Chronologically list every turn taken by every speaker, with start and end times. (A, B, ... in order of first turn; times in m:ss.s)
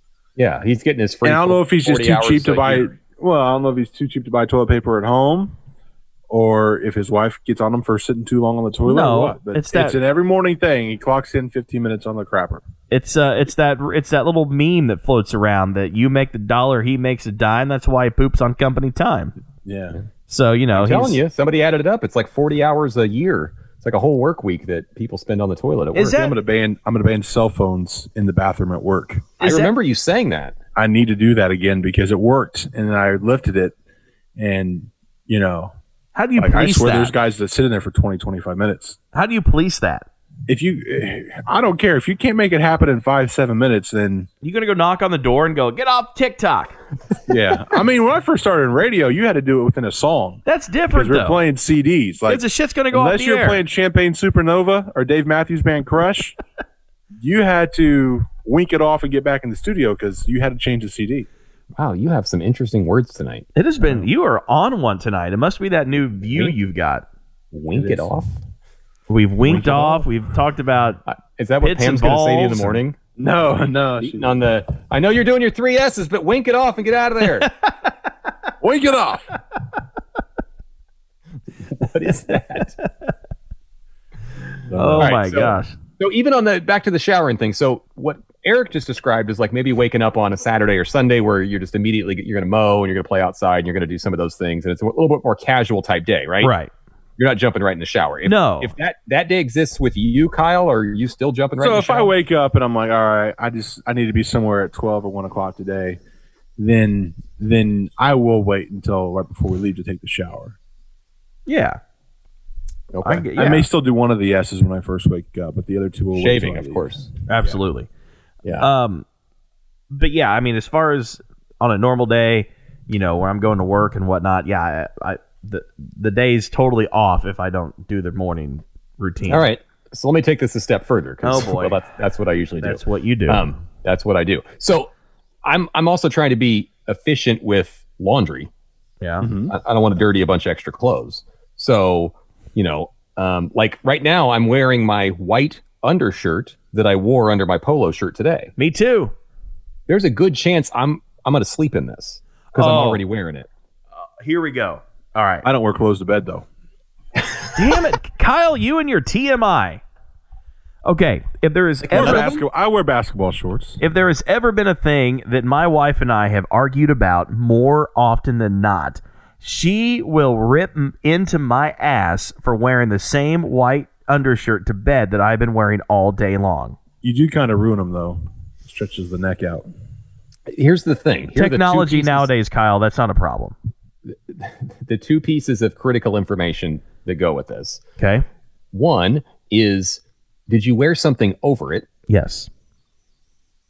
0:00.4-0:02.9 A
0:01.2-0:05.6 B
0:06.3-0:12.6 B
0:08.8-0:10.0 C
0:12.9-0:19.3 C
0:19.6-0:20.0 B
0:20.3-0:21.2 C
0:20.7-0:26.2 A
0:26.0-0:26.4 C
0:26.1-0:29.3 B
0:29.4-0:29.7 C
0:29.4-0:30.6 A
0:30.8-0:33.8 B
0:34.4-0:35.7 B
0:36.2-0:37.1 C
0:36.4-0:39.0 B
0:39.1-0:40.1 C
0:40.5-0:44.3 B
0:44.4-0:46.8 C
0:47.3-0:56.4 B
0:50.4-0:51.4 C
0:52.3-0:53.6 C
0:57.2-1:01.3 B
1:01.8-1:03.5 A
1:03.6-1:07.1 C
1:07.5-1:08.3 A
1:07.7-1:08.1 B
1:09.1-1:11.0 C
1:09.5-1:09.9 B
1:09.6-1:09.9 A
1:11.1-1:13.0 A
1:11.6-1:12.8 C
1:13.2-1:14.4 B
1:14.0-1:17.5 A
1:17.4-1:17.7 C
1:18.6-1:19.3 B
1:21.8-1:22.8 A
1:24.7-1:25.2 B
1:24.7-1:25.8 C
1:25.0-1:36.5 A
1:36.4-1:36.7 C
1:37.2-1:42.1 A
1:38.2-1:38.7 C
1:41.6-1:46.0 B
1:46.6-1:50.6 B
1:51.5-1:51.8 C
1:52.9-1:53.3 A
1:53.0-1:53.7 C
1:53.4-1:57.1 B
1:56.2-1:57.5 A
1:57.3-1:57.9 C
1:58.6-1:59.1 C
1:59.9-2:09.4 C
2:09.3-2:14.9 A
2:11.2-2:11.8 C
2:12.6-2:13.5 C
2:15.4-2:18.5 A
2:19.0-2:19.3 C
2:19.2-2:19.5 B
2:19.5-2:28.5 A
2:28.6-2:29.1 C
2:29.9-2:33.5 A
2:32.6-2:33.0 C
2:34.2-2:35.5 C
2:35.4-2:36.5 B
2:37.5-2:39.8 C
2:40.8-2:42.4 C
2:41.8-2:42.4 A
2:41.9-2:43.8 B
2:43.8-2:56.8 C
2:57.0-2:59.7 B
3:00.5-3:02.3 A
3:01.4-3:03.6 C
3:04.1-3:07.8 A
3:08.0-3:08.2 C
3:08.7-3:11.9 A
3:12.1-3:12.5 C